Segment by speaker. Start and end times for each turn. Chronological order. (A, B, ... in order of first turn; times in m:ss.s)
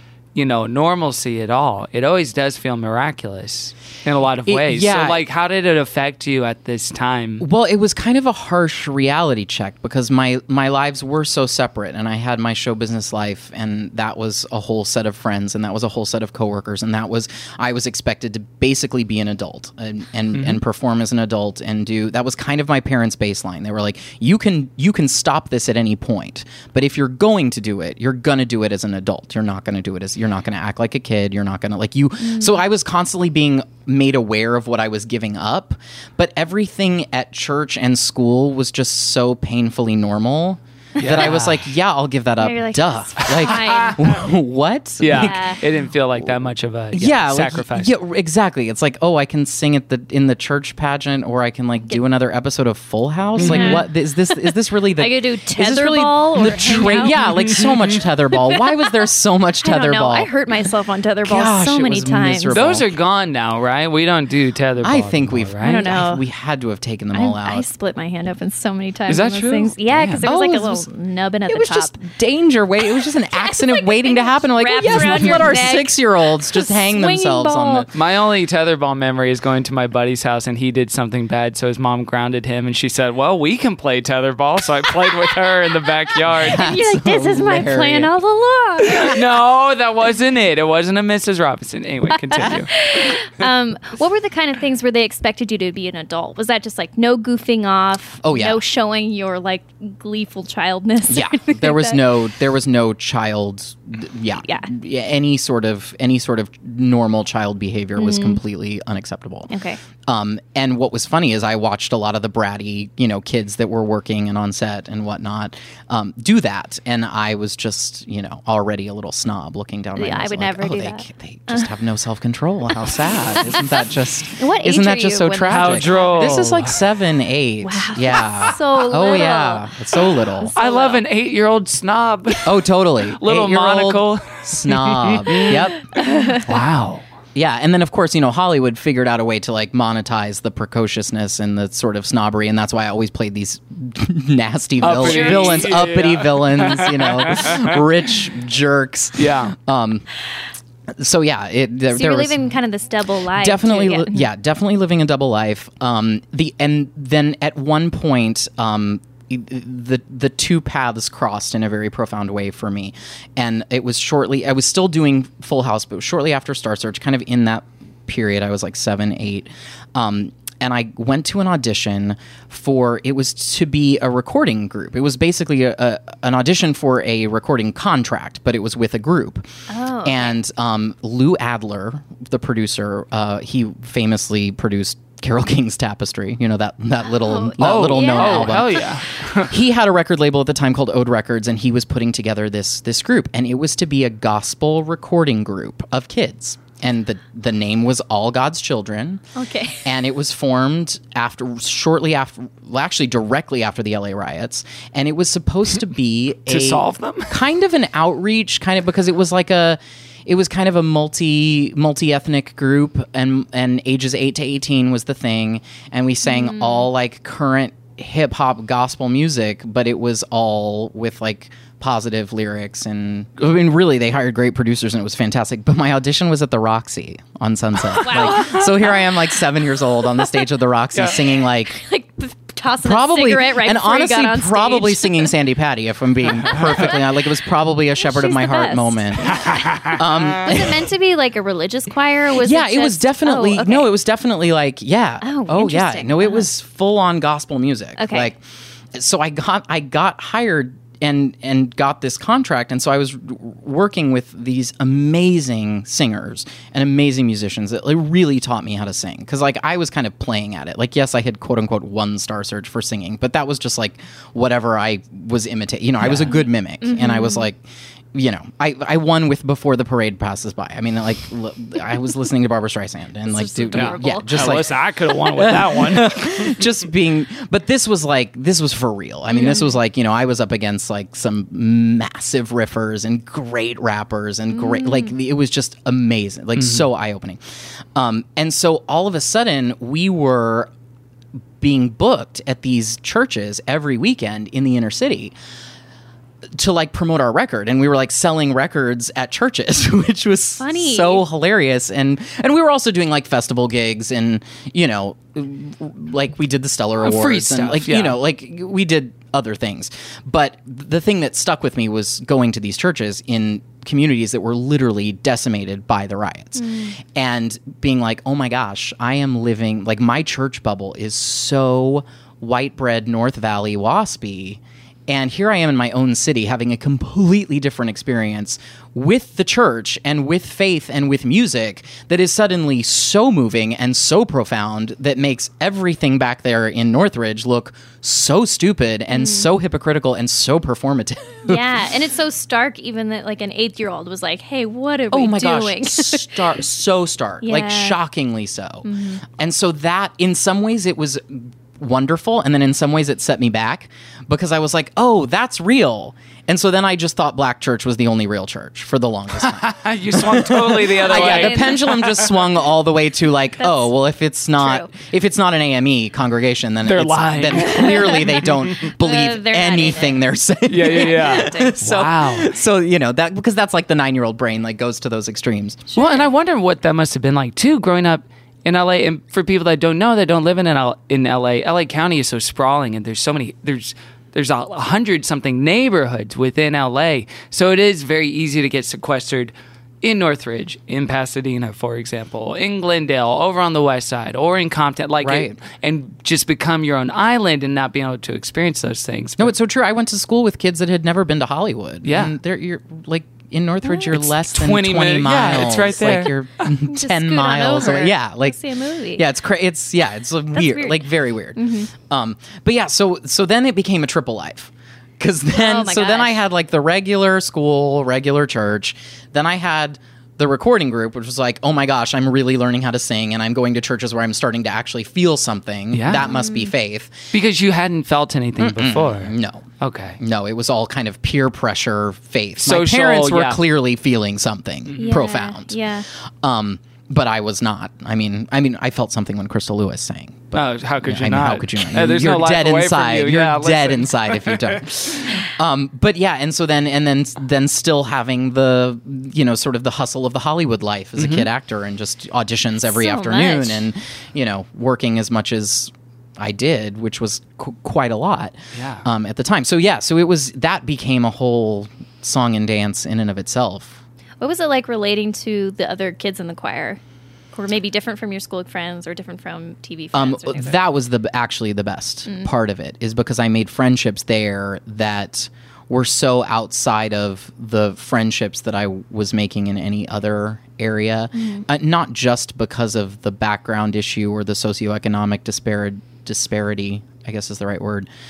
0:00.3-0:07.4 A
0:04.4-0:05.2 B
0:07.4-0:45.5 B
0:20.3-0:20.6 A
0:32.2-0:32.6 C
0:41.0-0:41.7 A
0:42.4-0:44.0 C
0:43.2-0:43.9 A
0:45.0-0:47.9 A
0:45.1-0:45.6 C
0:46.9-1:00.3 B
0:53.4-0:53.8 A
0:53.4-0:53.8 C
0:55.0-0:57.2 C
0:57.0-0:57.9 A
0:59.6-1:02.6 C
1:01.2-1:02.9 B
1:02.5-1:05.8 A
1:04.8-1:07.6 B
1:05.6-1:06.2 C
1:07.1-1:12.0 C
1:09.1-1:10.2 A
1:10.2-1:10.9 B
1:11.5-1:17.9 B
1:12.9-1:17.9 C
1:17.9-1:26.6 A
1:26.3-1:28.1 B
1:26.4-1:29.1 C
1:28.9-1:32.7 A
1:32.2-1:42.0 C
1:38.2-1:38.6 B
1:41.1-1:49.5 B
1:44.4-1:44.7 C
1:48.0-1:48.4 C
1:49.5-1:49.8 C
1:50.0-2:10.5 B
2:00.0-2:01.7 C
2:04.3-2:06.4 C
2:05.5-2:06.8 A
2:07.6-2:09.6 C
2:10.4-2:11.0 C
2:10.6-2:12.5 A
2:12.4-2:15.8 B
2:13.2-2:15.6 A
2:15.9-2:16.4 C
2:16.4-2:17.0 A
2:17.3-2:30.0 B
2:24.8-2:27.8 A
2:25.1-2:25.4 C
2:29.2-2:29.5 A
2:30.9-2:32.4 B
2:31.9-2:34.3 C
2:33.3-2:59.5 B
2:59.7-3:00.4 C
3:00.0-3:08.9 B
3:07.0-3:08.8 C
3:07.6-3:09.5 A
3:09.5-3:19.2 B
3:19.3-3:19.8 C
3:19.8-3:51.8 B
3:26.5-3:27.4 A
3:36.2-3:36.9 C
3:48.0-3:49.1 C
3:51.7-3:55.3 C
3:52.8-4:00.8 B
3:56.3-3:56.9 A
3:56.5-3:57.0 C
3:58.0-4:03.9 C
3:59.3-4:00.0 A
4:02.4-4:08.4 B
4:05.2-4:06.5 C
4:08.0-4:08.3 C
4:08.9-4:27.6 B
4:26.0-4:26.3 A
4:26.8-4:27.4 C
4:28.1-4:47.4 B
4:33.2-4:34.6 C
4:33.7-4:36.5 A
4:39.3-4:39.7 C
4:44.5-4:45.1 C
4:46.6-4:46.8 A
4:47.9-4:50.7 B
4:51.6-4:55.3 B
4:56.6-5:41.7 B
5:00.6-5:01.2 C
5:07.0-5:08.2 A
5:16.6-5:17.0 C
5:39.1-5:39.5 C
5:41.4-5:46.4 C
5:45.1-6:15.8 B
5:47.4-5:48.0 C
5:48.8-5:49.2 C
5:59.4-6:02.4 A
6:01.0-6:01.8 C
6:03.6-6:03.9 C
6:04.6-6:04.9 C
6:06.8-6:08.8 A
6:07.7-6:08.2 C
6:09.0-6:10.2 C
6:10.7-6:12.5 A
6:10.8-6:11.8 C
6:15.9-6:16.3 C
6:15.9-6:39.5 A
6:35.2-6:35.6 B
6:39.4-6:48.6 B
6:42.0-6:42.3 A
6:43.8-6:44.1 C
6:44.1-6:46.7 A
6:46.9-6:49.2 C
6:49.1-7:07.2 B
6:50.5-6:51.0 C
6:51.6-6:51.9 C
6:55.5-6:56.4 C
7:05.9-7:06.3 A
7:06.2-7:06.7 C
7:07.3-7:10.2 A
7:08.6-7:09.6 B
7:10.2-7:15.8 B
7:12.6-7:13.6 A
7:15.0-7:16.0 C
7:16.4-7:44.0 B
7:20.5-7:24.8 A
7:31.2-7:31.5 A
7:32.8-7:33.8 C
7:38.7-7:39.0 A
7:44.4-7:47.0 C
7:47.5-7:50.8 C
7:50.1-8:08.1 B
7:52.2-7:52.5 C
8:01.3-8:01.6 C